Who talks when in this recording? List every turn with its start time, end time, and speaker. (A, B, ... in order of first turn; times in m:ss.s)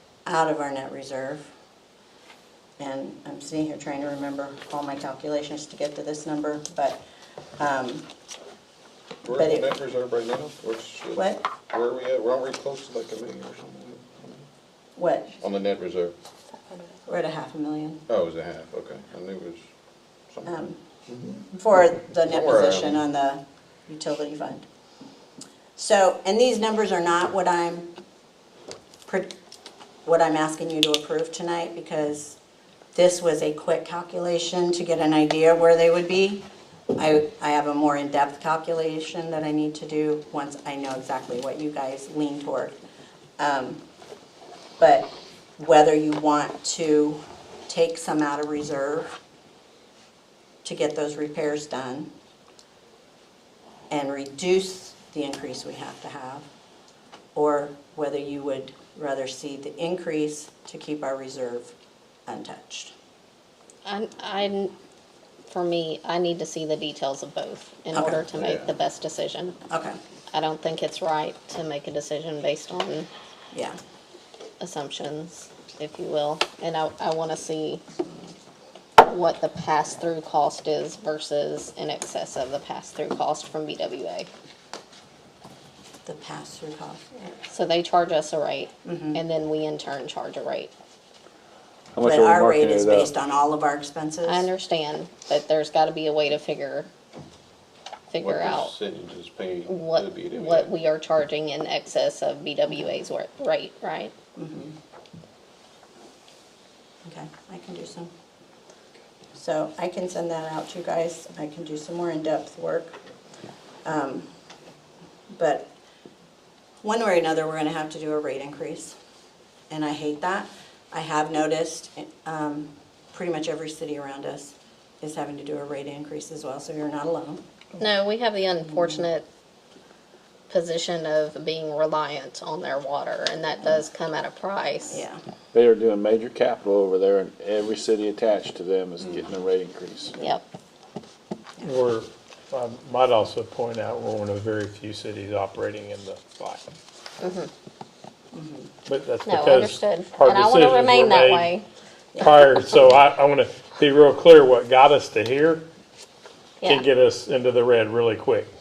0:00.3-0:01.5 A
0:02.8-0:07.0 A
0:07.6-0:08.1 A
0:09.2-0:14.4 B
0:09.3-0:09.7 A
0:11.2-0:11.4 A
0:15.0-0:15.4 A
0:15.4-0:16.1 B
0:17.1-0:18.0 A
0:18.1-0:19.6 B
0:20.4-0:20.8 A
0:21.4-0:24.7 A
0:22.3-0:23.0 B
0:25.8-0:27.9 A
0:29.1-0:29.3 A
0:30.0-0:32.4 A
0:32.9-0:42.8 A
0:43.4-0:43.8 A
0:44.8-0:49.2 A
0:50.6-0:52.1 A
0:53.9-0:56.5 A
0:57.4-1:01.7 A
1:02.3-1:02.9 A
1:03.8-1:04.7 C
1:05.5-1:09.6 C
1:08.0-1:08.2 A
1:08.3-1:08.7 B
1:09.7-1:10.0 A
1:10.3-1:13.1 C
1:13.5-1:13.8 A
1:14.6-1:17.8 C
1:19.0-1:24.3 C
1:26.0-1:27.1 A
1:27.5-1:30.7 C
1:28.8-1:29.2 A
1:31.9-1:33.1 D
1:32.0-1:34.5 A
1:34.3-1:36.9 C
1:38.1-1:38.7 C
1:38.2-1:40.7 B
1:39.7-1:44.1 C
1:44.4-1:44.8 A
1:47.0-1:48.1 A
1:49.4-1:53.0 A
1:53.8-1:54.3 A
1:55.3-1:55.7 A
1:56.8-1:59.0 A
1:59.7-2:07.4 A
2:07.8-2:09.2 C
2:08.8-2:09.0 A
2:10.5-2:15.0 C
2:14.9-2:15.2 A
2:15.5-2:20.1 D
2:20.2-2:20.4 C
2:21.6-2:26.6 E
2:27.2-2:27.5 C
2:28.3-2:28.7 A
2:28.9-2:31.5 E
2:29.2-2:31.6 C
2:32.1-2:32.4 A
2:32.2-2:35.7 E
2:36.6-2:38.5 E